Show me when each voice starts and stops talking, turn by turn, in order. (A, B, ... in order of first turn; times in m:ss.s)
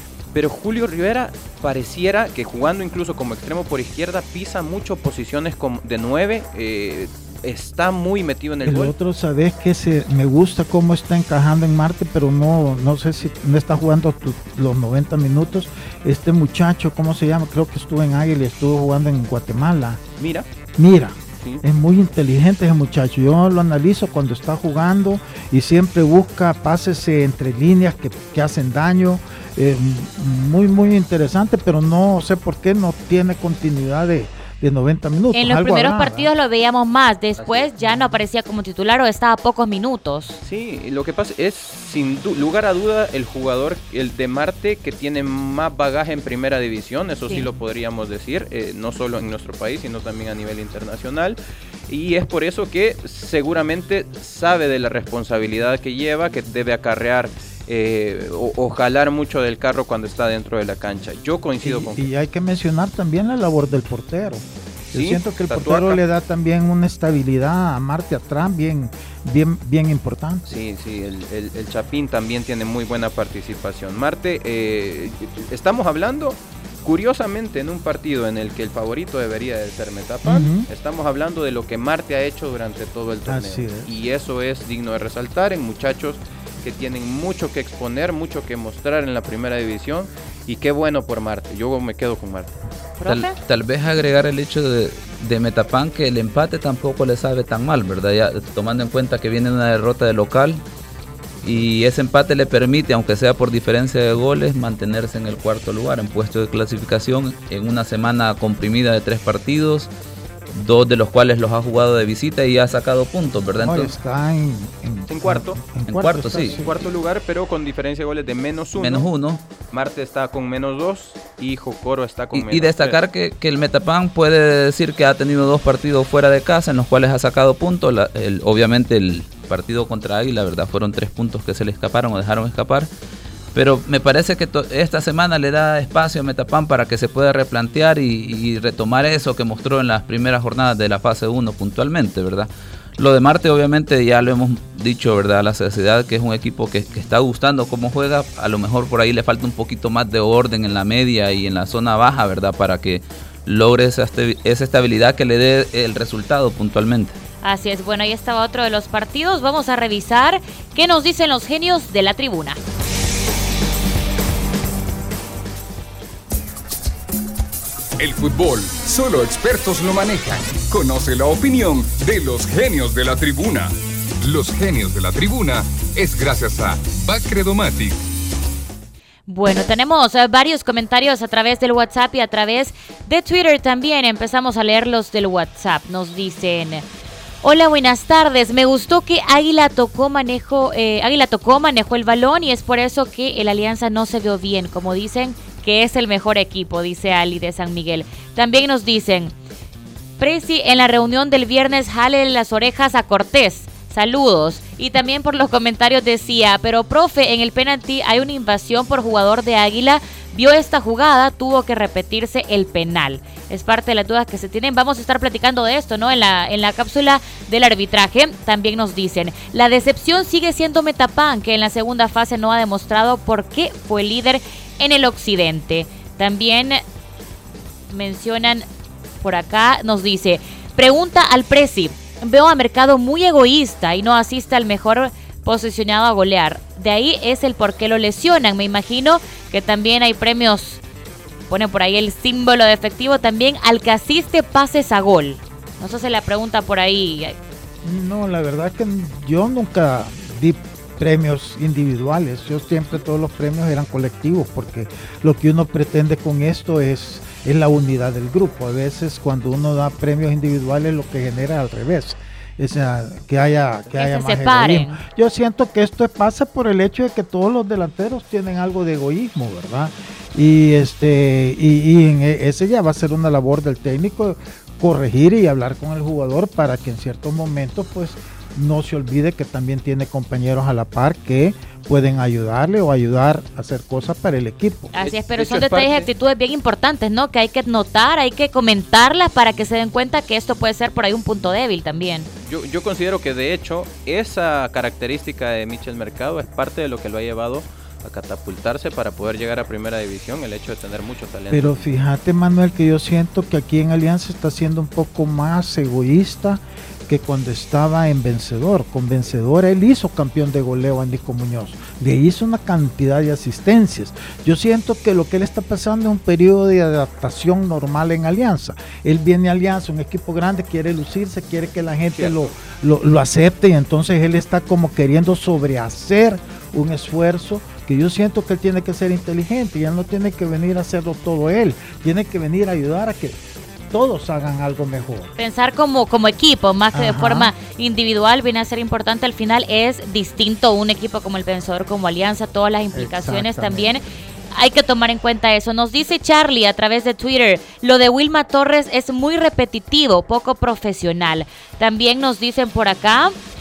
0:00.3-0:08.9 A
0:08.6-0:20.0 B
0:20.2-0:20.5 A
0:20.8-0:36.3 B
0:35.3-0:40.4 C
0:37.4-0:38.0 A
0:40.4-0:51.4 A
0:51.9-1:02.1 A
1:01.6-1:10.6 B
1:04.9-1:06.0 A
1:10.5-1:32.6 A
1:20.2-1:20.7 B
1:23.2-1:23.9 B
1:33.0-1:33.4 C
1:33.0-1:40.6 D
1:41.4-1:49.9 D
1:50.5-1:53.9 D
1:53.6-1:56.9 B
1:55.1-1:55.6 A
1:55.9-1:56.6 D
1:56.4-1:59.1 A
1:58.8-1:59.4 D
1:59.7-2:03.0 A
2:02.3-2:12.9 D
2:13.5-2:37.1 D
2:37.4-2:42.6 C
2:48.0-2:58.0 E
2:59.3-3:06.8 C
3:07.4-3:19.3 C
3:20.2-3:46.8 C
3:47.9-3:48.7 C
3:49.2-4:00.8 C
4:01.5-4:07.4 C
4:07.8-4:44.9 B
4:23.9-4:25.0 C
4:44.9-4:52.3 C
4:45.0-4:46.1 A
4:52.4-5:01.9 A
5:01.5-5:33.4 B
5:22.1-5:22.5 A
5:33.9-5:35.3 B
5:35.4-5:53.3 C
5:36.9-5:37.5 B
5:42.9-5:44.0 B